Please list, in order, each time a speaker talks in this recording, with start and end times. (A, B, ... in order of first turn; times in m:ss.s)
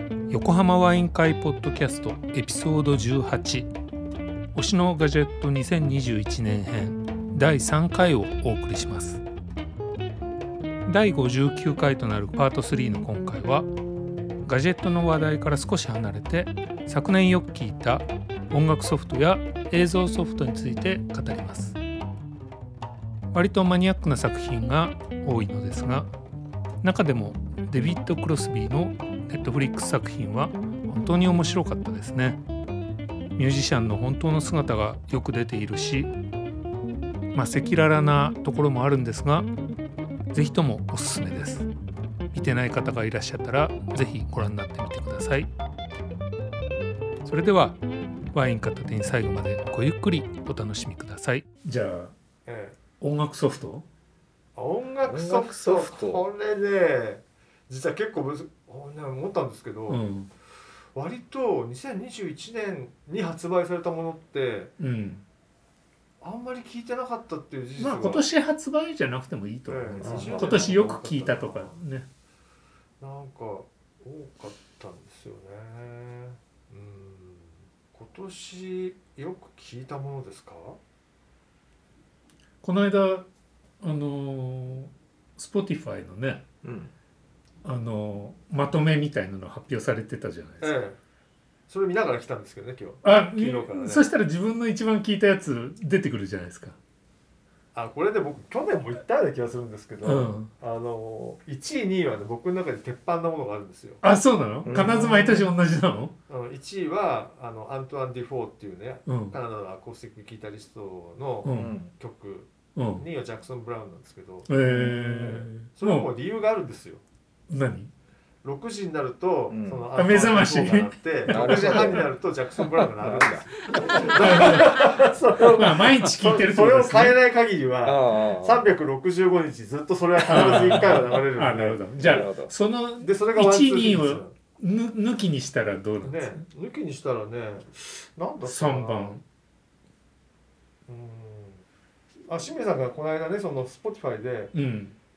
0:00.3-0:03.7 A
0:04.5-0:09.2 A
0:10.8-0:13.7 A
0:14.4-0:21.8 A
0:23.3-0:26.1 A
0:26.8-0:32.4 A
0:33.4-0:36.1 A
0:37.3-0:39.5 A
0:40.3-0:41.7 A
0:42.3-0:45.5 A
0:47.2-0:47.8 A
0:48.3-0:52.1 A
0:52.4-0:52.8 B
0:53.0-0:53.9 A
0:54.6-1:00.0 B
0:55.0-0:56.2 C
0:59.9-1:00.3 A
1:00.9-1:04.7 B
1:04.8-1:05.2 A
1:06.2-1:08.2 B
1:07.8-1:12.1 A
1:09.7-1:11.8 B
1:10.0-1:10.8 C
1:13.0-1:20.8 B
1:22.6-1:23.3 A
1:23.8-1:26.4 A
1:26.6-1:26.9 C
1:27.6-1:30.8 A
1:30.6-1:31.0 B
1:31.7-1:34.0 B
1:33.0-1:36.8 A
1:37.7-1:44.0 B
1:40.0-1:40.5 A
1:44.0-1:46.1 A
1:44.6-1:45.5 C
1:44.7-1:45.1 B
1:46.3-1:57.0 B
1:49.0-1:49.4 A
1:51.4-1:51.7 A
1:51.5-1:51.9 C
1:52.8-1:53.0 A
1:54.5-1:56.1 A
1:54.6-1:55.2 C
1:57.5-1:57.9 A
1:58.4-2:12.2 B
1:59.5-1:59.9 C
2:00.0-2:02.0 A
2:01.3-2:02.1 C
2:02.6-2:03.5 C
2:03.9-2:04.9 A
2:05.4-2:07.2 A
2:07.8-2:08.7 C
2:10.3-2:16.4 A
2:10.4-2:10.9 C
2:12.0-2:12.5 C
2:13.0-2:14.3 B
2:16.0-2:19.2 B
2:18.4-2:19.2 A
2:20.9-2:21.6 B
2:22.3-2:24.5 B
2:24.5-2:25.0 A